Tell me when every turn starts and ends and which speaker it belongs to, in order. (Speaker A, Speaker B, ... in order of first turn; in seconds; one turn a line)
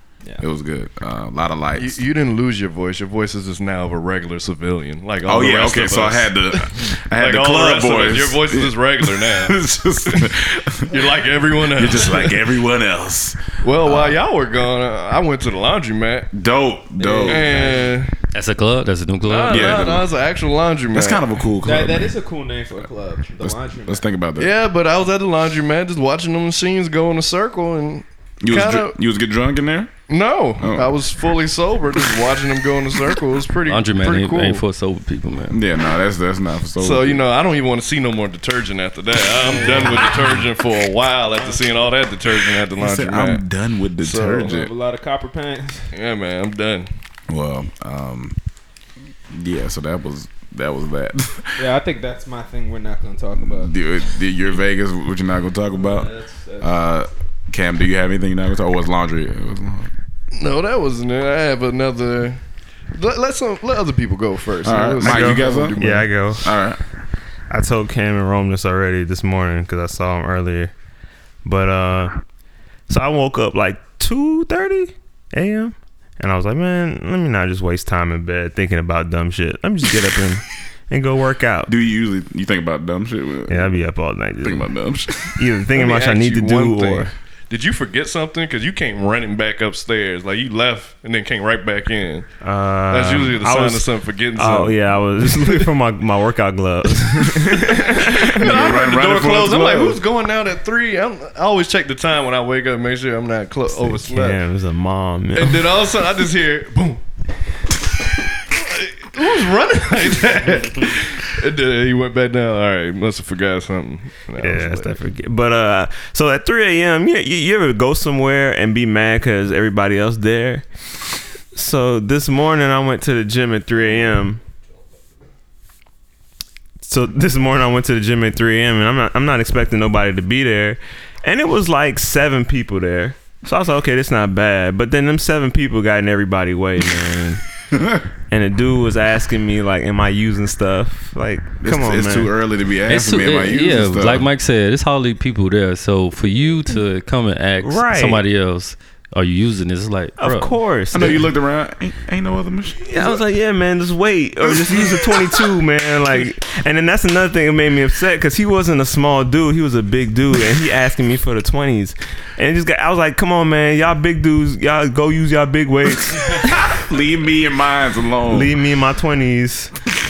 Speaker A: 0.4-2.0
Speaker B: 1.8-12.4
Speaker A: 5.2-11.1
Speaker A: 11.6-14.2
Speaker B: 13.6-16.3
Speaker A: 16.3-17.7
Speaker C: 17.0-17.8
Speaker B: 17.0-18.1
Speaker D: 18.3-19.9
Speaker B: 19.2-21.2
Speaker A: 19.5-20.1
Speaker A: 20.9-22.1
Speaker C: 21.6-24.1
Speaker A: 23.4-24.5
Speaker B: 24.4-28.9
Speaker A: 28.4-29.9
Speaker B: 30.1-34.6
Speaker A: 30.6-30.9
Speaker D: 33.6-35.6
Speaker A: 35.5-37.2
Speaker B: 36.8-43.4
Speaker C: 41.4-41.9
Speaker A: 42.7-44.7
Speaker B: 44.0-44.5
Speaker C: 44.4-45.9
Speaker B: 45.9-46.9
Speaker A: 47.3-48.4
Speaker A: 49.3-51.6
Speaker C: 51.6-53.7
Speaker A: 53.4-59.9
Speaker B: 60.3-62.4
Speaker B: 62.9-66.1
Speaker A: 64.6-65.8
Speaker E: 65.0-66.5
Speaker A: 66.4-66.8
Speaker E: 67.5-70.7
Speaker E: 71.4-72.2
Speaker E: 72.9-81.7
Speaker A: 81.7-83.7
Speaker E: 83.5-84.7
Speaker A: 84.4-85.5
Speaker E: 85.3-87.1
Speaker B: 85.7-92.3
Speaker E: 92.4-98.5
Speaker B: 92.9-94.8
Speaker B: 97.4-104.4
Speaker A: 98.3-100.0
Speaker E: 103.8-105.8
Speaker B: 105.3-107.0
Speaker B: 108.4-115.0
Speaker E: 114.4-120.7
Speaker E: 121.5-124.4
Speaker E: 126.8-137.4
Speaker A: 137.7-138.0
Speaker E: 138.3-142.3
Speaker A: 141.6-144.3
Speaker D: 142.9-150.6
Speaker E: 147.6-148.2
Speaker E: 150.2-151.3
Speaker A: 150.9-153.2
Speaker E: 152.8-166.6
Speaker A: 154.4-155.4
Speaker A: 166.2-168.5
Speaker E: 168.3-169.7